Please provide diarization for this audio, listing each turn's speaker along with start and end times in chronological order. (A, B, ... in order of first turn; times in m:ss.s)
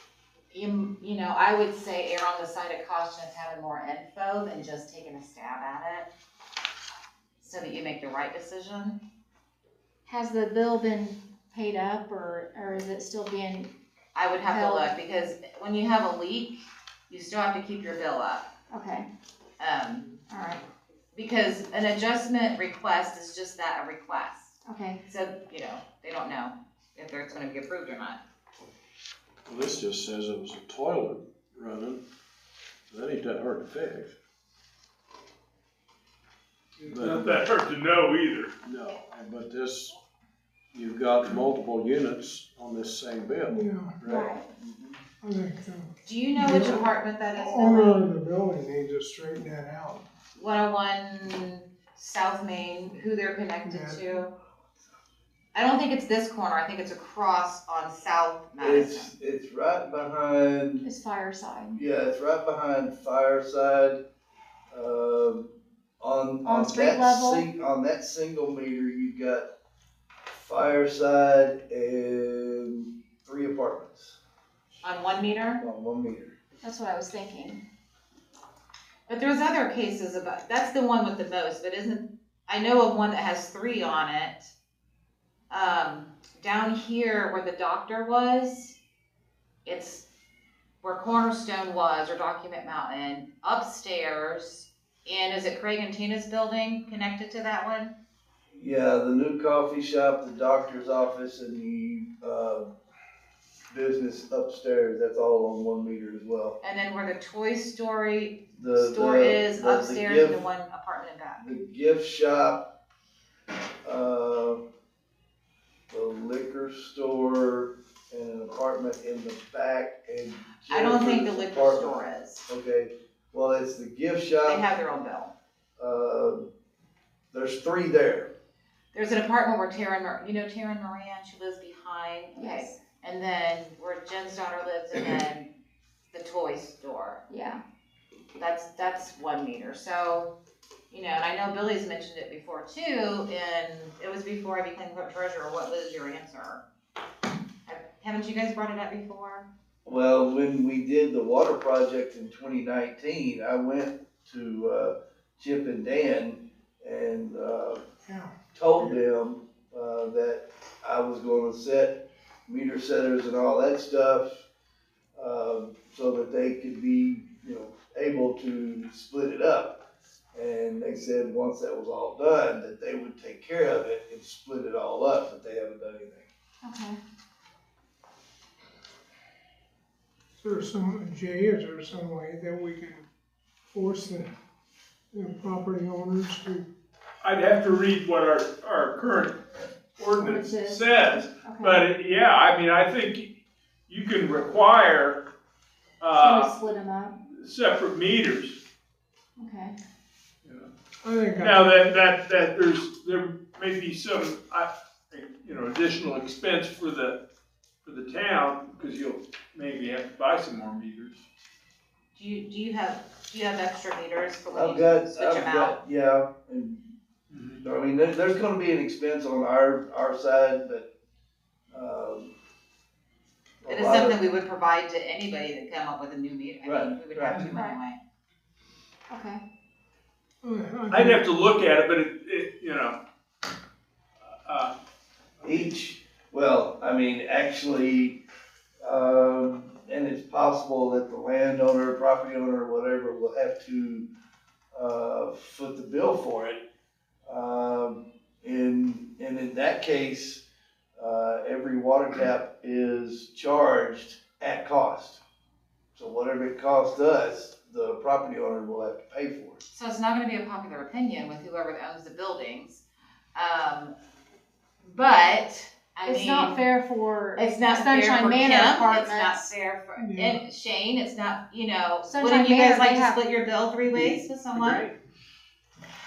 0:00.5-0:06.1 A
0:07.4-0:09.0 A
0:10.1-0:13.7 B
0:14.1-0:18.5 A
0:14.5-0:14.9 B
0:18.7-0:19.1 B
0:19.6-0:20.2 A
0:20.3-0:20.6 B
0:21.1-0:28.2 A
0:24.6-0:25.0 B
0:29.4-0:32.0 C
0:32.9-0:34.2 C
0:36.8-0:38.5 D
0:36.8-0:37.3 C
0:38.6-0:39.9 C
0:40.7-0:44.3 C
0:43.5-0:44.0 E
0:44.1-0:44.5 B
0:44.1-0:45.0 F
0:45.2-0:50.0 E
0:46.0-0:48.0 A
0:50.4-0:54.3 A
0:53.6-0:54.1 E
0:55.5-0:59.1 A
0:58.6-1:00.8 F
1:00.8-1:01.8 B
1:01.7-1:04.0 F
1:04.7-1:09.5 F
1:06.4-1:07.4 B
1:10.2-1:14.2 F
1:14.8-1:15.6 A
1:15.6-1:16.3 F
1:16.6-1:17.6 B
1:19.1-1:24.5 A
1:25.5-1:28.8 A
1:29.6-1:30.1 A
1:30.8-1:37.9 A
1:38.5-1:42.7 F
1:43.7-1:46.6 F
1:46.6-1:51.5 A
1:48.5-1:50.4 F
1:51.4-1:52.7 F
1:53.8-1:54.6 F
1:55.9-2:04.6 F
2:00.7-2:02.5 A
2:04.4-2:05.3 A
2:05.8-2:06.5 F
2:07.3-2:08.3 F
2:08.9-2:15.5 A
2:12.4-2:12.8 B
2:16.1-2:17.2 A
2:17.3-2:17.6 B
2:18.4-2:20.3 A
2:20.9-2:26.6 A
2:27.7-2:29.5 A
2:29.8-2:37.8 F
2:38.0-2:38.9 E
2:38.5-2:44.4 F
2:45.1-2:49.8 F
2:50.3-2:56.3 F
2:56.6-2:57.0 B
3:00.4-3:03.0 E
3:03.7-3:04.3 E
3:05.1-3:06.7 E
3:07.2-3:09.4 D
3:10.0-3:13.3 D
3:10.2-3:11.8 B
3:13.9-3:15.3 D
3:16.0-3:16.6 D
3:16.2-3:17.1 B
3:17.4-3:18.6 D
3:19.4-3:19.8 B
3:21.0-3:21.6 E
3:21.4-3:27.2 D
3:27.8-3:31.2 D
3:32.1-3:35.8 A
3:34.5-3:36.9 F
3:37.3-3:37.6 D
3:37.6-3:40.9 F
3:41.7-3:42.3 F
3:43.6-3:44.2 F
3:43.7-3:48.0 A
3:46.6-3:47.5 F
3:49.1-3:49.4 B
3:50.4-3:51.2 E
3:50.9-3:53.0 D
3:54.4-3:54.7 D
3:55.4-3:55.6 D
3:55.4-3:58.2 F
3:58.8-4:04.1 F
4:04.7-4:06.6 F
4:07.2-4:10.4 F
4:11.0-4:15.2 F
4:15.9-4:19.6 F
4:19.7-4:22.8 A
4:23.3-4:23.9 A
4:24.8-4:26.6 A
4:26.0-4:29.5 B
4:27.4-4:34.8 A
4:30.0-4:30.4 E
4:32.0-4:33.2 B
4:34.0-4:34.9 D